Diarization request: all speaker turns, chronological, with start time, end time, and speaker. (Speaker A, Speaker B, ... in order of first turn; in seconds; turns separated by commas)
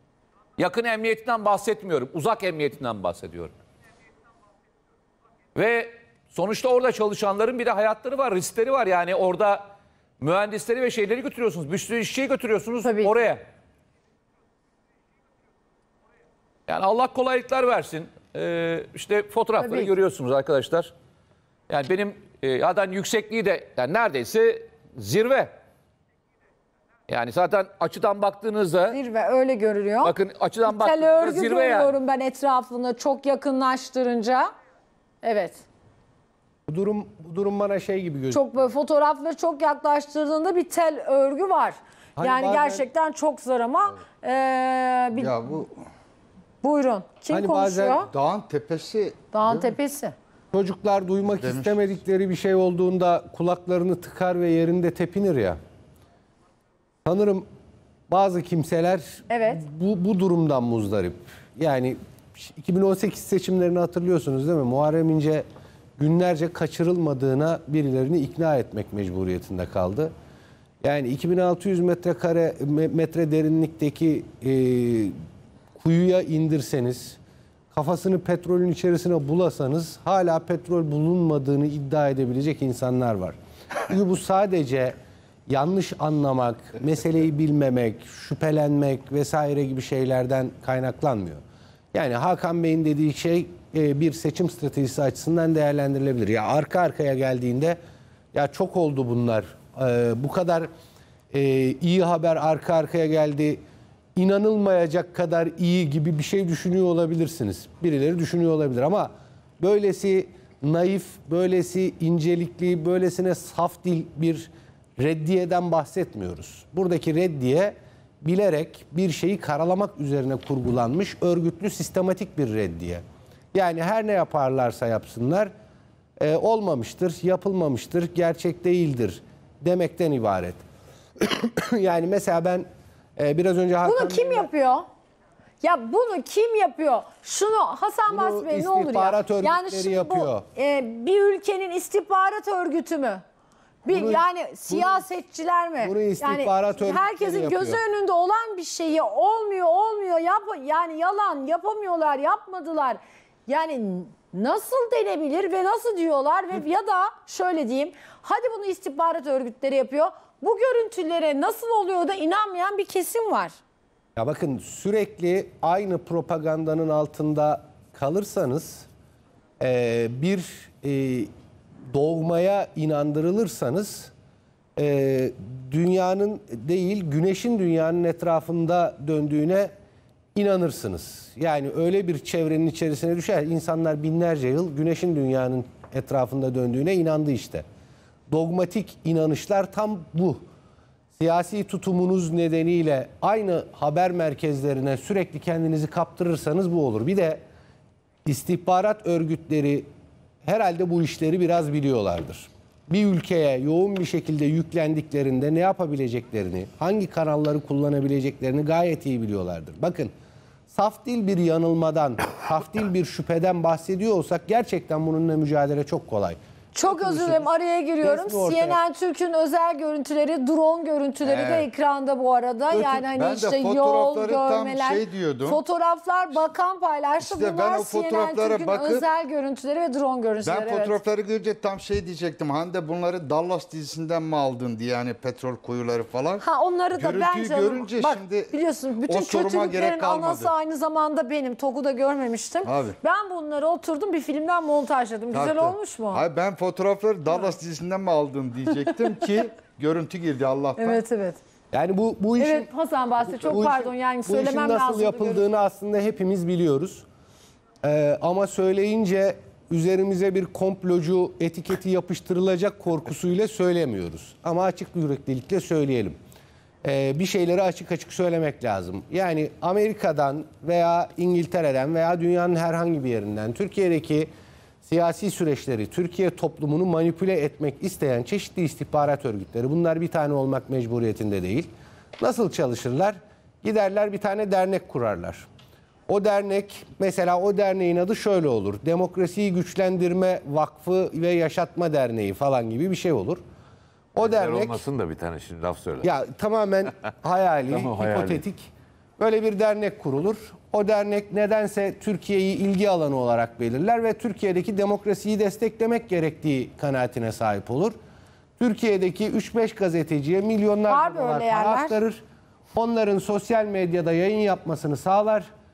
Speaker A: 0.6-3.5, Speaker A: 5.5-9.7, Speaker A: 10.2-13.4, Speaker B: 12.8-13.2, Speaker A: 16.7-20.9, Speaker B: 19.6-19.9, Speaker A: 21.7-25.5, Speaker A: 27.1-29.0, Speaker B: 28.9-34.5, Speaker A: 30.0-32.0, Speaker B: 35.2-35.6, Speaker C: 36.7-38.5, Speaker B: 38.3-45.6, Speaker C: 42.2-42.8, Speaker D: 45.1-45.8, Speaker B: 46.6-48.1, Speaker C: 47.3-48.1, Speaker D: 48.0-49.7, Speaker B: 49.3-50.1, Speaker C: 50.5-55.6, Speaker D: 51.4-51.9, Speaker C: 57.0-57.5, Speaker C: 58.1-65.5, Speaker B: 59.3-59.6, Speaker C: 66.0-70.1, Speaker C: 70.8-75.1, Speaker C: 75.8-77.2, Speaker C: 77.7-83.4, Speaker C: 83.9-85.0, Speaker C: 85.5-91.4, Speaker C: 91.9-97.8, Speaker C: 98.3-100.7, Speaker C: 101.3-103.6, Speaker C: 104.2-123.0, Speaker C: 123.5-125.5, Speaker C: 126.2-130.6, Speaker C: 131.2-132.7, Speaker C: 133.2-134.5, Speaker B: 133.8-134.8, Speaker B: 135.6-143.2, Speaker C: 138.1-140.4, Speaker B: 143.8-163.6, Speaker C: 143.9-145.0, Speaker C: 145.8-147.8, Speaker C: 164.2-168.9, Speaker C: 169.6-171.3, Speaker C: 171.9-174.1, Speaker C: 174.8-179.7, Speaker C: 180.3-187.6, Speaker C: 188.3-190.4, Speaker C: 191.2-197.4, Speaker C: 198.2-199.9, Speaker C: 200.4-210.1, Speaker C: 210.7-217.4, Speaker B: 216.7-231.0, Speaker C: 218.0-218.8, Speaker D: 221.2-221.7, Speaker D: 222.7-225.6, Speaker D: 227.2-229.1, Speaker D: 230.4-238.5, Speaker B: 236.4-246.2, Speaker D: 239.1-240.5, Speaker D: 242.6-243.0, Speaker D: 245.3-251.0, Speaker B: 250.8-251.4, Speaker C: 251.7-252.7, Speaker B: 252.4-255.4, Speaker C: 253.2-257.1, Speaker C: 257.8-266.2, Speaker C: 266.8-274.3, Speaker C: 274.8-281.7, Speaker C: 282.2-285.5, Speaker C: 286.1-293.4, Speaker C: 294.1-294.8, Speaker E: 294.2-296.1, Speaker C: 296.0-307.9, Speaker E: 297.7-298.4, Speaker C: 308.6-312.2, Speaker B: 310.9-312.0, Speaker C: 312.8-315.5